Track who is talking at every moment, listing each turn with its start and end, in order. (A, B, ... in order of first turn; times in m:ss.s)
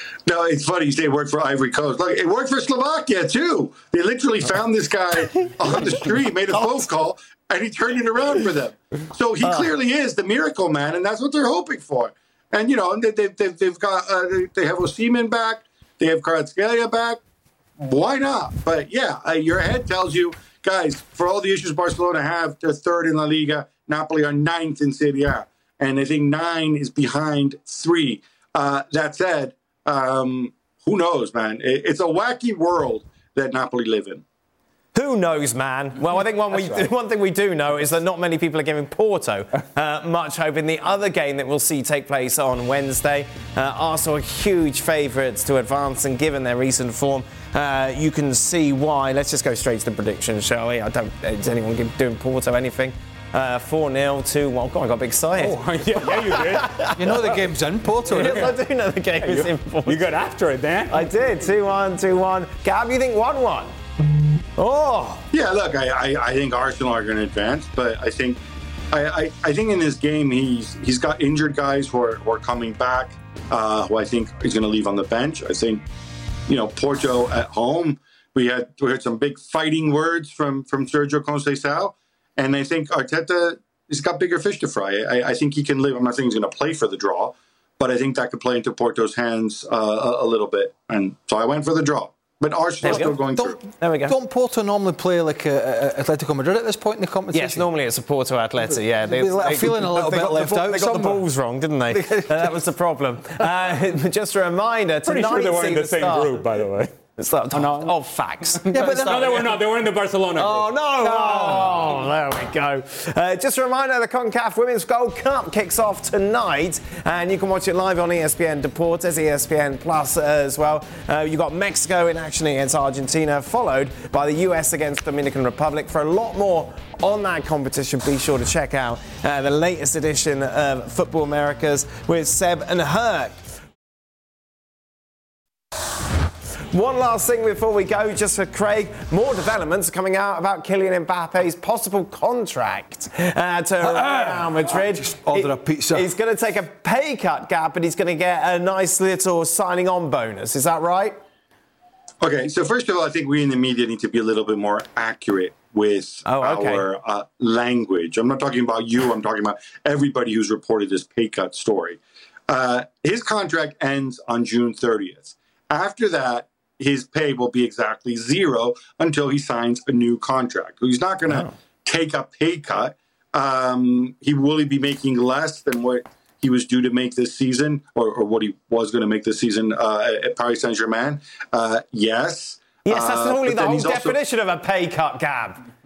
0:00.3-0:17.2 A
0:17.8-0:34.2 A
0:34.9-0:57.1 B
0:55.4-0:56.9 C
0:56.9-0:58.6 D
0:58.1-1:00.1 B
0:58.2-0:58.5 C
0:59.1-1:01.1 C
1:00.9-1:03.7 B
1:04.6-1:05.2 B
1:05.3-1:08.4 A
1:08.9-1:15.8 A
1:16.5-1:33.6 A
1:32.9-1:33.2 B
1:32.9-1:37.7 D
1:33.8-1:34.2 B
1:37.3-1:46.4 B
1:39.0-1:41.2 D
1:41.9-1:42.6 D
1:45.0-1:46.9 C
1:47.2-1:49.6 B
1:47.5-1:47.9 C
1:48.6-1:50.7 C
1:48.8-1:49.3 D
1:50.4-2:13.4 B
1:51.0-1:51.8 D
2:16.7-2:31.2 B
2:23.8-2:26.1 D
2:32.2-3:04.2 A
2:36.2-2:36.9 B
3:02.9-3:05.6 B